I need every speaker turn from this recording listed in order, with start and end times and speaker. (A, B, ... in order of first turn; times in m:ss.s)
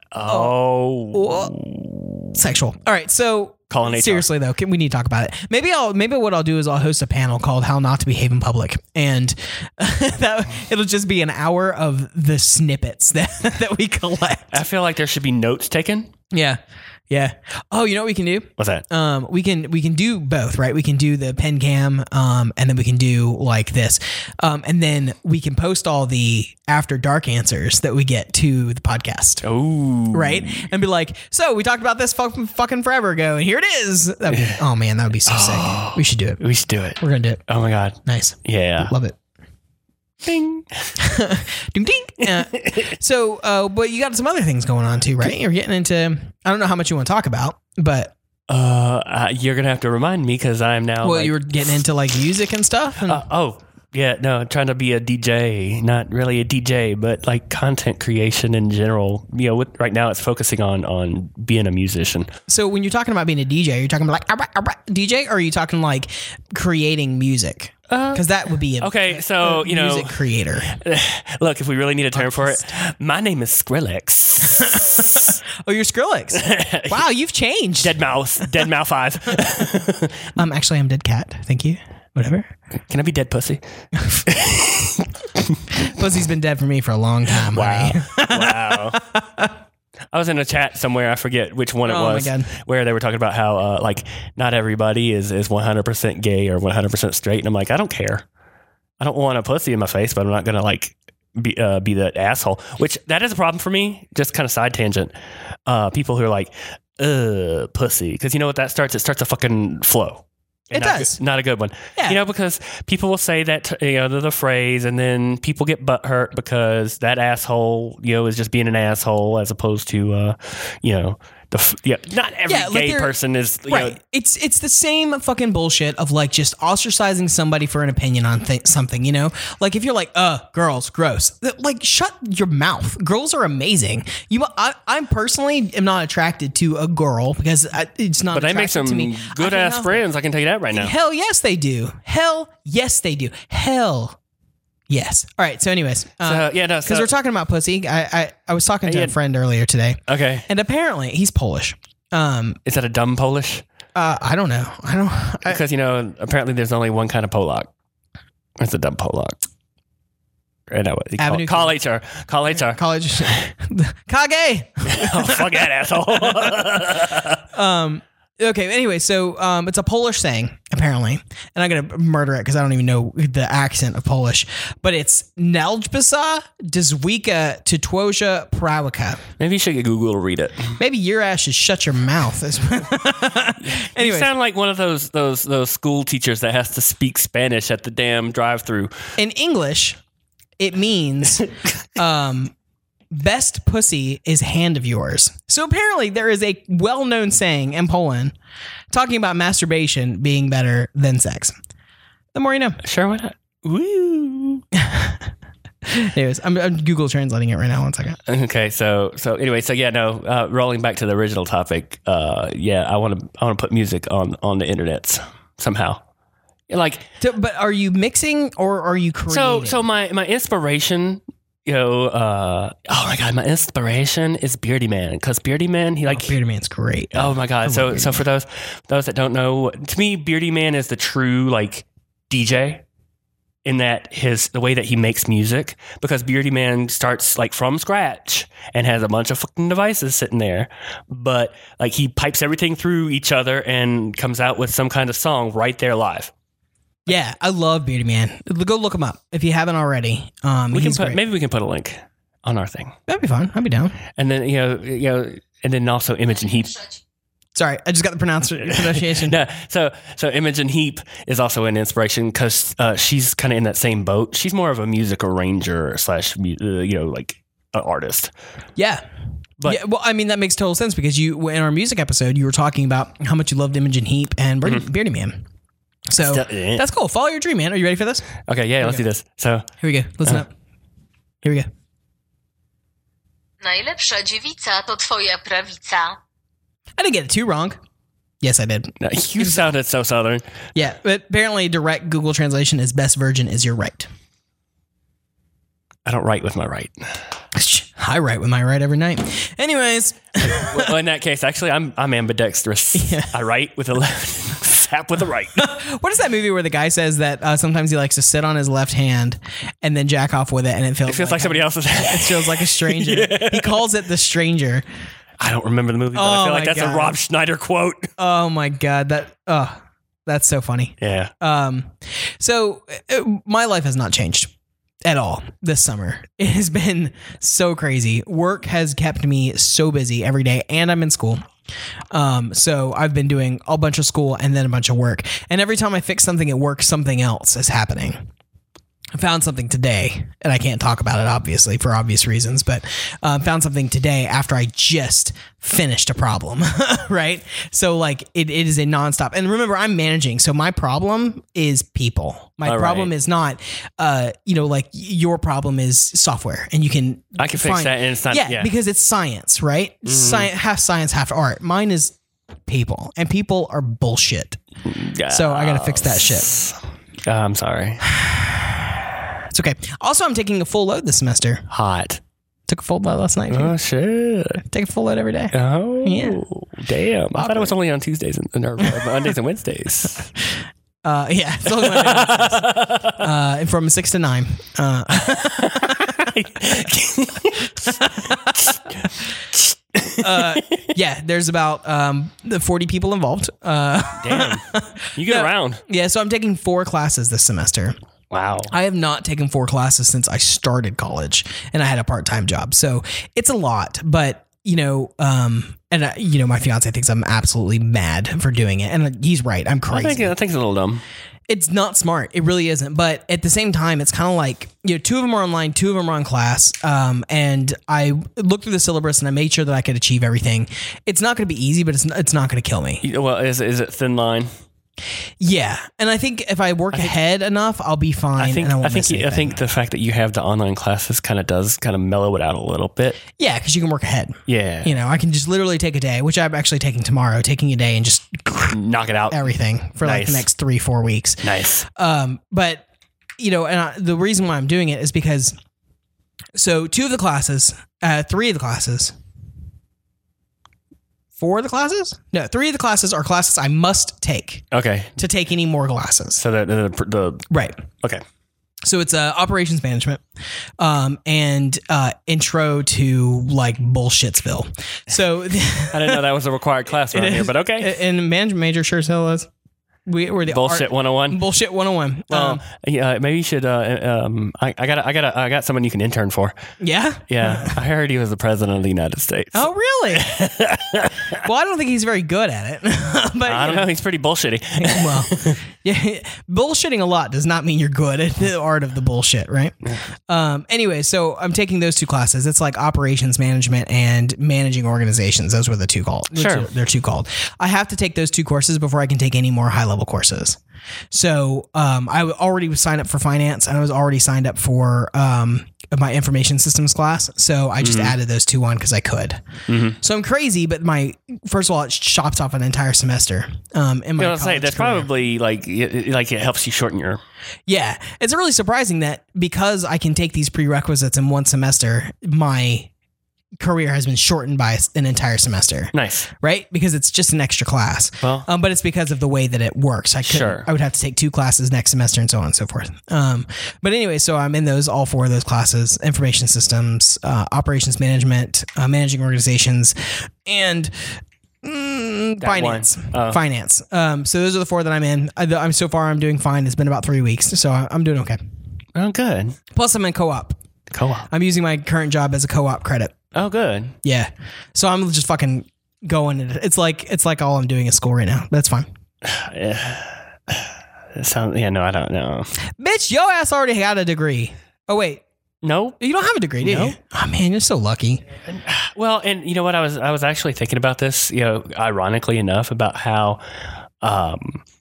0:00.1-0:02.4 A
0:00.2-0:00.6 B
0:01.1-0:01.5 B
0:02.3-0:14.6 B
0:03.7-0:04.3 A
0:14.5-0:16.1 A
0:16.3-0:16.6 B
0:17.1-0:29.4 B
0:18.6-0:18.8 A
0:29.4-0:30.6 A
0:30.1-0:36.4 B
0:34.3-0:34.6 A
0:35.2-0:38.9 A
0:37.0-0:37.4 B
0:38.0-0:39.2 B
0:40.2-0:40.9 A
0:41.0-0:48.1 B
0:42.2-0:42.9 A
0:48.5-0:51.4 A
0:51.0-0:53.2 B
0:53.0-1:02.3 A
1:02.5-1:10.7 B
1:07.9-1:15.4 A
1:12.1-1:12.7 B
1:14.5-1:18.0 B
1:16.3-1:17.0 A
1:17.8-1:20.3 A
1:20.4-1:22.5 B
1:22.9-1:23.6 A
1:24.0-1:24.2 B
1:24.2-1:25.6 A
1:25.7-1:29.5 B
1:27.3-1:29.0 A
1:30.1-1:38.2 A
1:31.8-1:32.5 B
1:39.0-1:45.1 A
1:45.6-2:04.0 A
1:50.7-1:51.2 B
2:02.5-2:03.1 B
2:03.7-2:20.0 B
2:18.3-2:20.9 A
2:20.7-2:24.2 B
2:24.9-2:32.6 B
2:26.2-2:27.1 A
2:28.8-2:29.1 A
2:30.1-2:30.4 A
2:32.6-2:33.6 A
2:33.9-2:35.6 B
2:35.4-2:37.7 A
2:38.6-2:39.4 A
2:40.7-2:42.8 A
2:41.2-2:41.7 B
2:42.5-2:45.6 B
2:44.9-2:47.4 A
2:47.5-2:59.2 B
2:59.4-3:00.8 A
3:00.8-3:04.3 B
3:03.6-3:09.0 A
3:09.2-3:10.0 B
3:10.6-3:12.5 B
3:13.1-3:18.3 B
3:18.9-3:21.6 B
3:22.3-3:22.8 B
3:22.8-3:24.6 A
3:24.7-3:25.2 B
3:25.8-3:28.2 B
3:28.2-3:36.0 A
3:36.7-3:37.0 A
3:37.2-3:39.8 B
3:39.3-3:46.4 A
3:46.1-3:48.2 B
3:47.1-3:52.8 A
3:53.6-4:06.3 A
4:07.0-4:11.2 B
4:10.7-4:12.9 A
4:13.1-4:14.0 B
4:14.1-4:16.8 A
4:16.6-4:16.9 C
4:17.5-4:19.4 B
4:18.6-4:28.3 A
4:28.8-4:29.0 B
4:29.6-4:35.4 B
4:36.1-4:38.3 B
4:36.2-4:36.8 A
4:38.4-4:39.7 A
4:39.8-4:40.5 B
4:43.6-4:46.2 C
4:47.0-4:47.8 B
4:48.4-4:49.7 B
4:49.0-4:50.5 A
4:50.7-4:54.1 B
4:56.0-4:57.2 A
4:57.5-5:00.9 B
5:00.4-5:05.7 A
5:02.9-5:03.3 B
5:05.6-5:14.8 B
5:11.1-5:13.8 A
5:15.4-5:18.1 A
5:16.1-5:17.2 B
5:18.2-5:24.5 B
5:21.0-5:21.3 A
5:25.0-5:31.4 B
5:32.1-5:38.2 B
5:39.1-6:02.2 B
5:52.6-5:53.1 A
5:57.4-5:58.7 A
6:00.0-6:00.5 A
6:02.7-6:04.6 B
6:04.8-6:08.0 A
6:05.3-6:06.5 B
6:08.1-6:08.8 B
6:09.5-6:11.6 B
6:11.7-6:12.2 A
6:12.7-6:13.7 B
6:13.5-6:14.6 A
6:14.6-6:16.4 B
6:15.5-6:20.3 A
6:17.4-6:17.7 B
6:21.0-6:26.3 B
6:21.7-6:23.2 A
6:25.2-6:28.9 A
6:28.0-6:28.7 B
6:29.5-6:30.6 A
6:30.2-6:37.9 B
6:34.2-6:35.8 A
6:38.3-6:38.7 A
6:38.7-6:50.3 B
6:49.9-6:51.0 A
6:51.5-7:03.0 B
7:03.0-7:04.5 A
7:05.4-7:09.6 B
7:08.4-7:13.2 A
7:13.4-7:18.8 B
7:14.4-7:15.0 A
7:18.7-7:19.5 A
7:19.3-7:22.8 B
7:20.0-7:20.5 A
7:21.4-7:21.8 A
7:23.4-7:25.6 B
7:26.6-7:29.1 B
7:31.4-7:34.6 B
7:34.7-7:35.2 A
7:35.2-7:36.4 B
7:36.4-7:37.5 A
7:37.5-7:37.8 B
7:38.8-7:40.2 B
7:40.8-7:46.2 B
7:45.9-7:48.0 A
7:47.1-7:49.5 B
7:50.0-7:52.6 B
7:50.4-7:51.4 A
7:52.3-7:56.5 A
7:56.8-7:57.8 B
7:57.3-8:01.3 A
7:59.5-8:00.3 B
8:01.4-8:03.9 B
8:03.4-8:05.6 A
8:04.8-8:09.8 B
8:10.3-8:20.6 B
8:16.3-8:16.7 A
8:21.1-8:29.4 B
8:27.8-8:28.1 A
8:29.7-8:30.0 A
8:30.0-8:35.1 B
8:34.2-8:37.2 A
8:37.7-8:42.9 B
8:43.6-9:08.4 B
8:45.9-8:46.3 A
8:48.2-8:48.5 A
8:50.2-8:50.7 A
9:02.4-9:03.4 A
9:08.9-9:09.6 A
9:09.7-9:10.6 B
9:10.9-9:11.3 A
9:11.3-9:13.2 B
9:13.3-9:14.0 A
9:14.0-9:18.9 B
9:19.2-9:22.5 A
9:22.8-9:25.2 B
9:25.6-9:26.0 A
9:26.0-9:28.2 B
9:26.6-9:27.0 A
9:28.4-9:33.4 A
9:34.0-9:34.6 A